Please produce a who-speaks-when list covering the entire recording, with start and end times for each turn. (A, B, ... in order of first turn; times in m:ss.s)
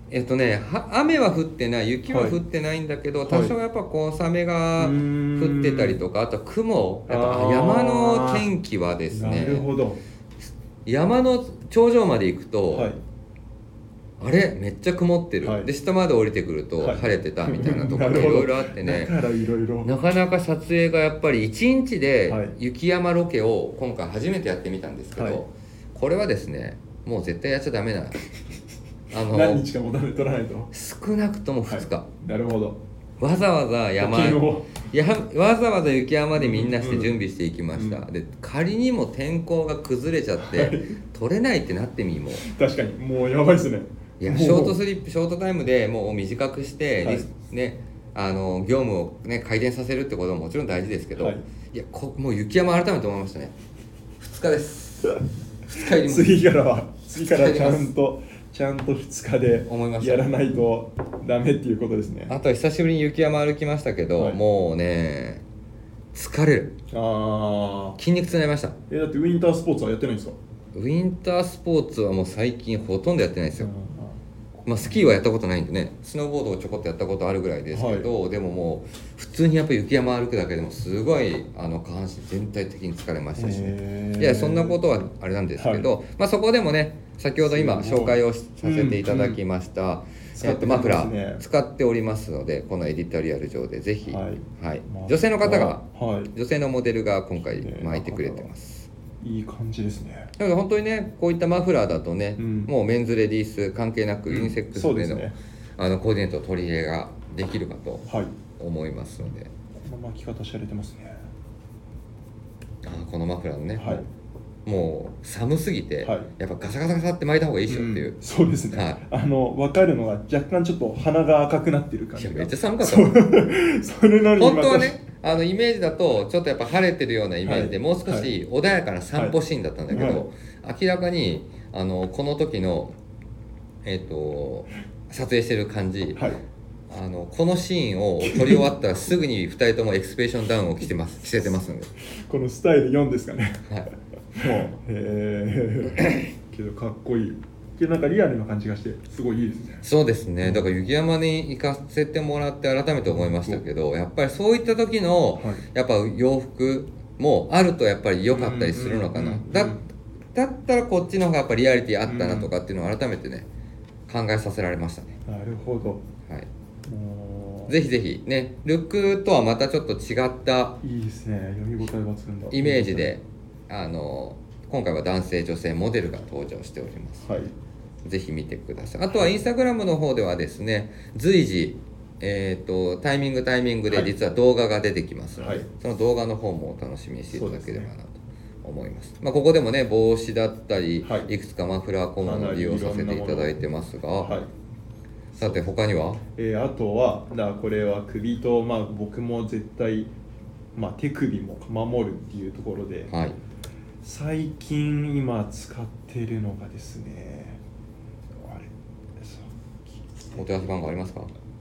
0:00.1-0:09.7 A
0:02.1-0:02.4 B
0:03.2-0:03.6 B
0:04.8-0:06.0 B
0:07.1-0:08.5 B
0:09.1-0:10.0 B
0:10.8-0:12.9 A
0:12.7-0:13.0 B
0:14.2-0:19.2 A
0:15.4-0:15.7 B
0:16.8-0:19.9 B
0:19.8-0:28.2 A
0:22.3-0:22.6 B
0:25.2-0:25.4 B
0:29.1-0:29.7 A
0:29.2-0:30.7 B
0:30.7-0:32.1 A
0:31.7-0:32.8 B
0:33.2-0:42.5 A
0:34.0-0:34.7 B
0:36.4-0:37.2 B
0:37.8-0:38.0 B
0:40.4-0:41.0 B
0:42.4-0:44.8 B
0:44.2-0:53.5 A
0:47.0-0:47.3 B
0:51.2-0:51.4 B
0:54.2-0:56.4 A
0:55.8-1:02.4 B
0:57.3-0:57.9 A
0:59.7-1:00.3 A
1:02.3-1:05.4 A
1:06.1-1:06.8 A
1:06.9-1:08.0 B
1:08.0-1:08.8 A
1:08.9-1:10.4 B
1:10.7-1:13.7 A
1:13.6-1:14.2 B
1:14.7-1:38.9 A
1:17.7-1:18.1 B
1:23.4-1:25.0 B
1:25.6-1:25.9 B
1:27.4-1:29.4 B
1:30.4-1:31.4 B
1:34.1-1:36.3 B
1:37.5-1:38.5 B
1:39.2-1:40.3 B
1:40.4-1:49.5 A
1:42.4-1:42.7 B
1:44.3-1:45.4 B
1:48.1-1:48.3 B
1:49.8-1:51.3 B
1:52.8-1:54.0 A
1:53.8-1:54.1 B
1:54.7-1:58.2 A
1:56.0-1:56.3 B
1:57.7-2:05.0 B
1:58.7-1:59.0 A
2:02.2-2:03.2 A
2:04.4-2:13.0 A
2:07.4-2:08.3 B
2:09.9-2:10.2 B
2:13.8-2:16.3 A
2:16.2-2:16.4 B
2:16.9-2:21.9 A
2:18.2-2:18.7 B
2:22.2-2:23.7 B
2:24.3-2:29.8 B
2:26.0-2:26.3 A
2:29.8-2:39.8 A
2:30.4-2:30.7 B
2:33.1-2:33.6 B
2:35.4-2:35.6 B
2:38.3-2:39.8 B
2:40.4-2:43.5 A
2:42.1-2:42.5 B
2:44.1-2:45.2 A
2:45.3-2:46.0 B
2:46.9-2:47.7 B
2:47.7-2:50.8 A
2:50.8-2:53.1 B
2:52.5-2:57.3 A
2:57.2-2:57.5 B
2:58.0-3:14.4 A
3:05.4-3:05.7 B
3:07.3-3:07.9 B
3:11.0-3:11.3 B
3:12.2-3:13.6 B
3:14.2-3:14.5 B
3:15.4-3:16.2 A
3:16.4-3:20.1 B
3:20.8-3:23.1 B
3:23.1-3:23.4 A
3:24.0-3:27.6 B
3:28.4-3:29.9 B
3:30.4-3:31.3 A